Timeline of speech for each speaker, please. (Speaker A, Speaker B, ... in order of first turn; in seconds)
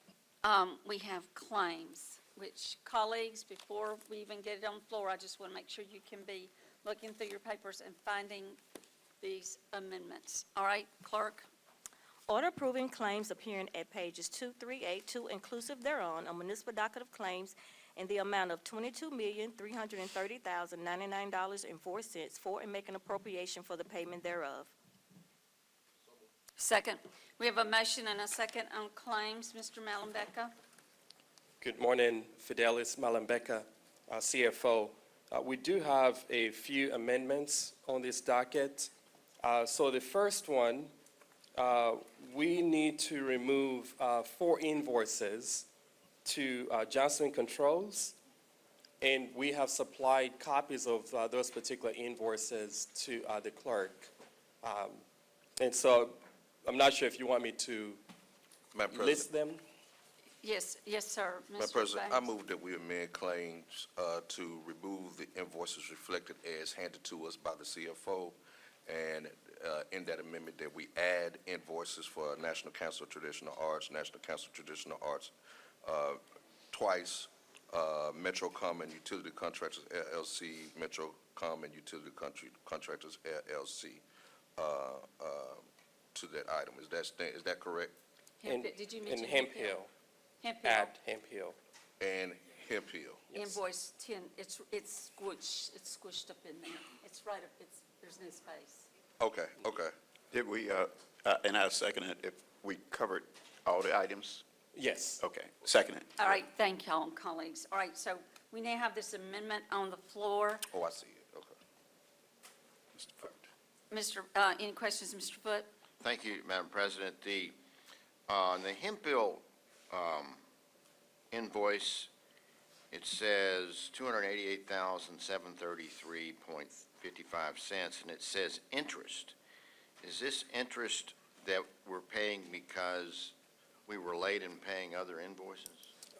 Speaker A: 0.4-8.6, 9.2-11.5, 26.6-30.5, 60.4-62.3, 88.4-89.8, 90.4-91.0, 93.3-98.9, 106.2-110.7, 113.9-115.7
Speaker B: 12.3-24.7
Speaker C: 31.6-38.9, 39.4-40.9, 41.6-45.7, 46.2-48.2, 49.0-54.1, 54.6-55.0, 55.6-58.0, 58.9-59.6, 88.5-89.9, 90.6-91.6, 104.7-105.2
Speaker D: 58.7-59.3, 61.6-75.3, 75.8-76.2, 76.7-84.0, 84.6-85.6, 86.1-87.9, 92.0-93.3, 99.2-99.9, 110.7-111.5
Speaker E: 100.3-104.4, 105.2-106.4, 113.0-113.4
Speaker F: 116.0-117.5, 118.3-120.4, 121.3-122.1, 122.9-129.3, 130.0-133.3, 133.9-135.9